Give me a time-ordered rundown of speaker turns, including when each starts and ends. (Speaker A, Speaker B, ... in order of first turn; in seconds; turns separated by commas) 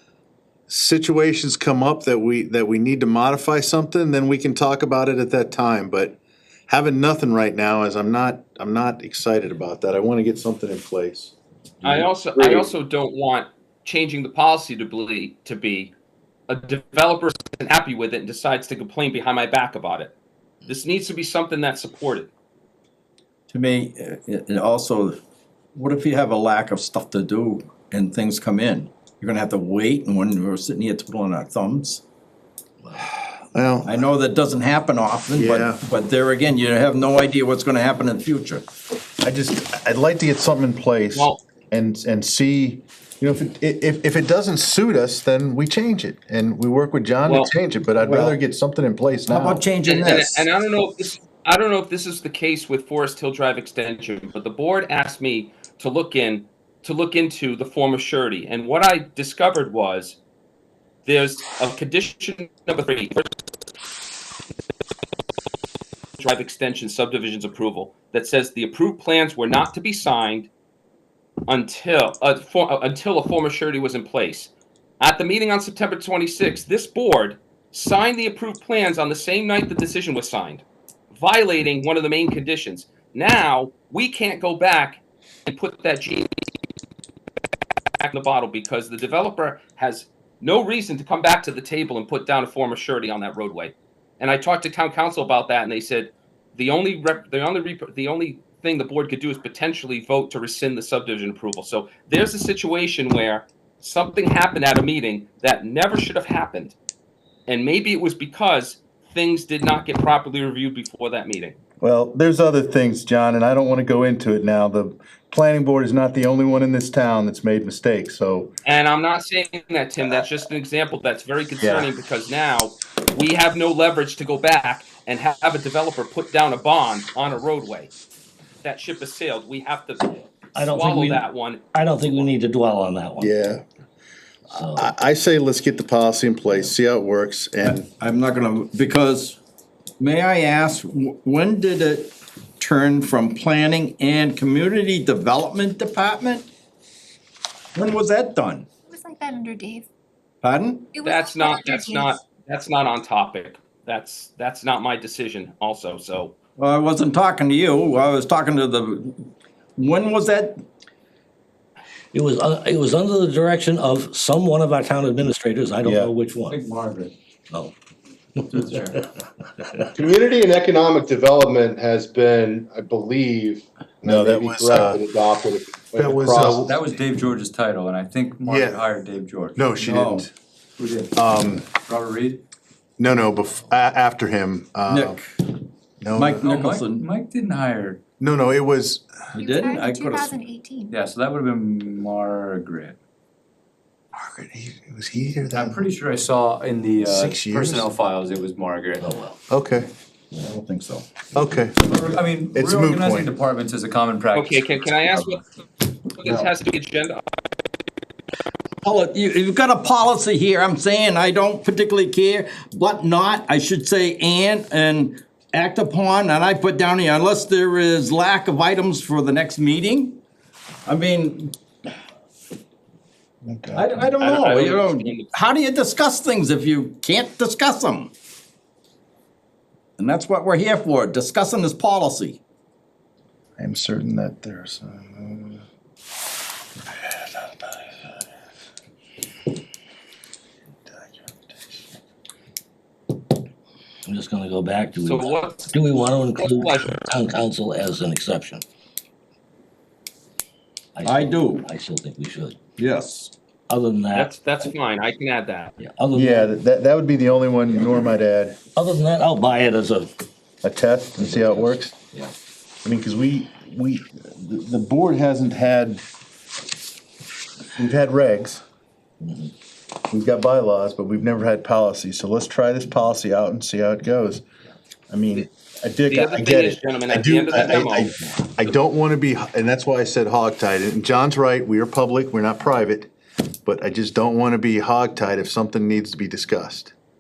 Speaker A: 0.7-12.7, Speaker B: 11.8-15.9, Speaker B: 16.5-20.1, Speaker B: 20.7-22.3, Speaker C: 23.5-25.2, Speaker C: 25.7-32.0, Speaker A: 33.5-34.0, Speaker C: 33.9-38.7, Speaker A: 35.3-35.8, Speaker A: 39.2-49.7, Speaker B: 41.1-41.4, Speaker B: 47.3-47.5, Speaker C: 48.0-48.4, Speaker C: 49.3-50.5, Speaker B: 49.8-60.2, Speaker B: 61.1-63.2, Speaker B: 66.2-70.5, Speaker B: 71.5-74.5, Speaker B: 75.0-86.3, Speaker B: 88.0-106.8, Speaker B: 107.5-111.6, Speaker A: 111.8-118.5, Speaker B: 118.7-127.9, Speaker A: 121.6-121.9, Speaker B: 128.6-131.6, Speaker D: 130.6-133.3, Speaker A: 133.2-133.6, Speaker D: 134.5-134.9, Speaker A: 134.7-137.9, Speaker C: 138.0-139.4, Speaker C: 140.0-146.5, Speaker C: 147.8-148.7, Speaker E: 148.9-149.9, Speaker C: 150.4-150.9, Speaker E: 150.9-152.2, Speaker B: 151.0-156.3, Speaker C: 156.6-160.6, Speaker D: 162.1-166.6, Speaker A: 165.8-166.1, Speaker F: 166.5-167.1, Speaker F: 168.5-169.0, Speaker D: 168.7-169.0, Speaker G: 169.9-176.7, Speaker A: 174.0-175.0, Speaker A: 175.9-176.8, Speaker F: 176.4-179.8, Speaker A: 178.4-178.8, Speaker A: 179.6-180.3, Speaker C: 179.8-180.2, Speaker F: 180.8-182.4, Speaker A: 181.1-181.7, Speaker A: 183.0-185.2, Speaker C: 184.9-185.2, Speaker A: 186.0-186.5, Speaker C: 186.2-187.1, Speaker F: 186.3-188.0, Speaker A: 188.2-189.1, Speaker C: 189.4-190.3, Speaker E: 189.4-190.9, Speaker F: 189.6-193.0, Speaker A: 194.1-195.9, Speaker F: 195.5-199.1, Speaker A: 197.0-197.9, Speaker D: 199.0-199.4, Speaker A: 199.5-199.9, Speaker C: 200.4-201.1, Speaker A: 201.3-202.0, Speaker F: 201.8-204.9, Speaker A: 202.5-203.3, Speaker B: 204.3-207.2, Speaker C: 208.8-220.2, Speaker C: 220.9-221.6, Speaker A: 223.4-224.1, Speaker C: 223.8-228.1, Speaker B: 224.2-225.3, Speaker C: 230.0-232.4, Speaker A: 233.6-235.6, Speaker A: 236.9-238.1, Speaker A: 240.9-241.8, Speaker D: 244.1-248.6, Speaker B: 245.0-245.8, Speaker B: 246.4-247.1, Speaker D: 250.9-252.6, Speaker C: 251.0-251.7, Speaker C: 252.8-253.3, Speaker D: 253.7-254.7, Speaker B: 254.1-255.7, Speaker D: 255.8-256.5, Speaker A: 256.1-258.6, Speaker D: 258.8-260.1, Speaker A: 260.6-261.9, Speaker D: 261.2-262.3, Speaker A: 262.8-266.0, Speaker A: 267.8-268.6, Speaker D: 269.2-269.5, Speaker A: 270.1-274.4, Speaker A: 275.1-283.1, Speaker B: 276.1-278.1, Speaker A: 283.6-286.9